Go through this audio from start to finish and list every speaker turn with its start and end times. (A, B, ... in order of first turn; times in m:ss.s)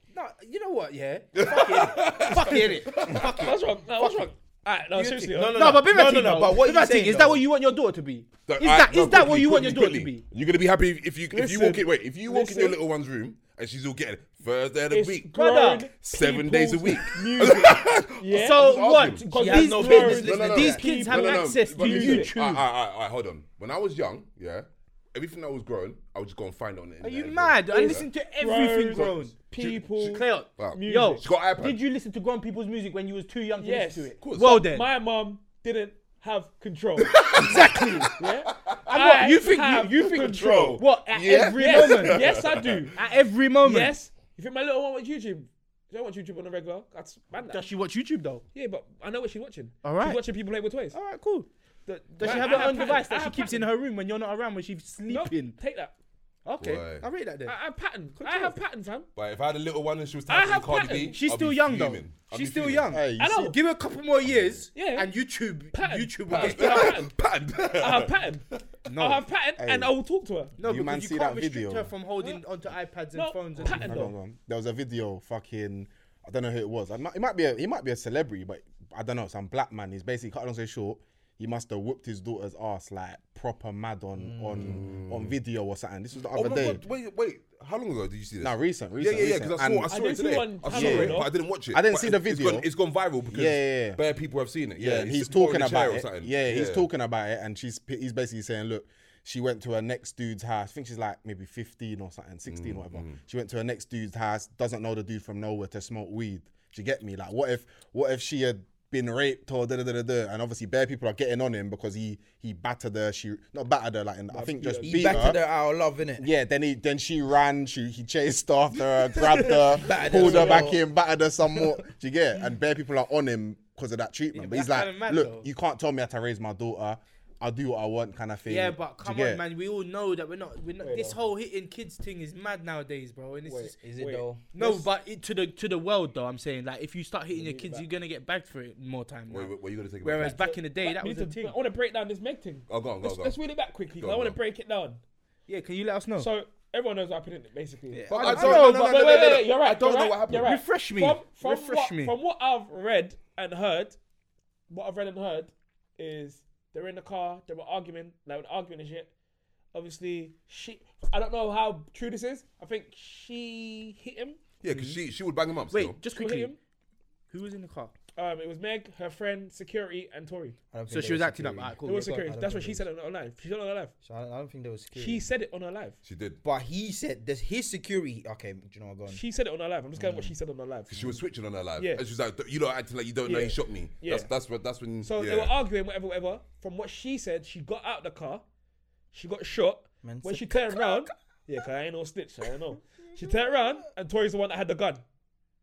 0:00.1-0:04.3 A
0:01.3-0:03.4 B
0:03.1-0:05.8 C
0:04.9-0:10.3 A
0:05.3-0:07.4 D
0:08.4-0:15.4 B
0:11.3-0:12.8 C
0:14.9-0:16.1 C
0:15.4-0:17.1 A
0:16.0-0:19.2 B
0:17.0-0:22.3 C
0:18.3-0:22.7 A
0:19.3-0:21.0 D
0:20.0-0:28.1 B
0:27.0-0:29.5 A
0:27.7-0:31.2 C
0:28.9-0:31.8 B
0:30.1-0:34.9 A
0:33.6-0:37.2 C
0:34.2-0:34.6 B
0:37.0-0:39.1 B
0:37.3-0:38.2 A
0:38.2-0:40.8 C
0:38.9-0:43.9 A
0:40.0-0:42.9 B
0:41.5-0:43.0 C
0:43.6-0:47.6 C
0:47.4-0:48.4 A
0:48.5-0:51.0 C
0:49.8-0:50.2 A
0:50.9-0:51.5 A
0:51.9-0:53.6 C
0:52.1-0:55.6 A
0:55.1-0:55.9 C
0:56.4-0:57.6 A
0:56.6-0:57.1 B
0:57.4-0:59.1 C
0:58.2-0:58.6 A
0:59.1-1:03.0 B
1:00.3-1:01.2 C
1:01.1-1:07.0 A
1:02.9-1:03.4 E
1:03.2-1:03.6 C
1:04.7-1:05.1 C
1:05.7-1:07.1 C
1:06.3-1:08.2 B
1:07.7-1:10.5 C
1:08.9-1:09.2 A
1:09.6-1:09.9 E
1:10.6-1:14.1 A
1:10.6-1:11.9 E
1:13.1-1:14.1 C
1:13.7-1:26.8 E
1:24.2-1:24.8 D
1:24.6-1:25.4 B
1:26.2-1:36.8 B
1:28.4-1:29.9 E
1:29.9-1:31.3 C
1:30.7-1:32.7 E
1:33.3-1:34.0 E
1:34.7-1:55.4 E
1:42.5-1:43.2 B
1:54.3-1:55.4 C
1:54.8-1:56.3 D
1:56.2-2:09.4 E
1:59.2-2:00.7 C
1:59.5-2:00.8 D
2:04.3-2:05.5 A
2:08.4-2:13.8 A
2:10.8-2:11.2 C
2:13.4-2:14.8 C
2:13.8-2:14.4 D
2:14.5-2:21.6 A
2:17.3-2:17.9 C
2:19.3-2:20.5 B
2:20.2-2:25.0 C
2:22.7-2:23.4 B
2:24.0-2:24.4 B
2:25.5-2:26.3 A
2:26.2-2:34.0 C
2:27.9-2:28.7 D
2:28.1-2:30.5 B
2:28.1-2:29.4 A
2:30.3-2:32.1 A
2:34.7-2:39.1 C
2:39.7-2:44.4 C
2:44.6-2:46.0 B
2:44.7-2:45.0 A
2:45.7-2:46.6 A
2:46.1-2:46.6 C
2:47.3-2:47.9 A
2:48.2-2:50.6 C
2:50.7-2:52.8 D
2:50.9-2:52.2 A
2:51.8-2:53.9 C
2:54.0-2:55.3 D
2:54.9-2:56.0 C
2:56.0-2:56.4 B
2:56.4-2:59.2 D
2:59.1-3:01.2 C
3:00.0-3:00.3 D
3:00.9-3:05.5 B
3:01.8-3:02.0 C
3:03.2-3:04.3 C
3:05.0-3:08.4 C
3:09.1-3:15.0 C
3:10.0-3:11.1 D
3:13.2-3:13.8 D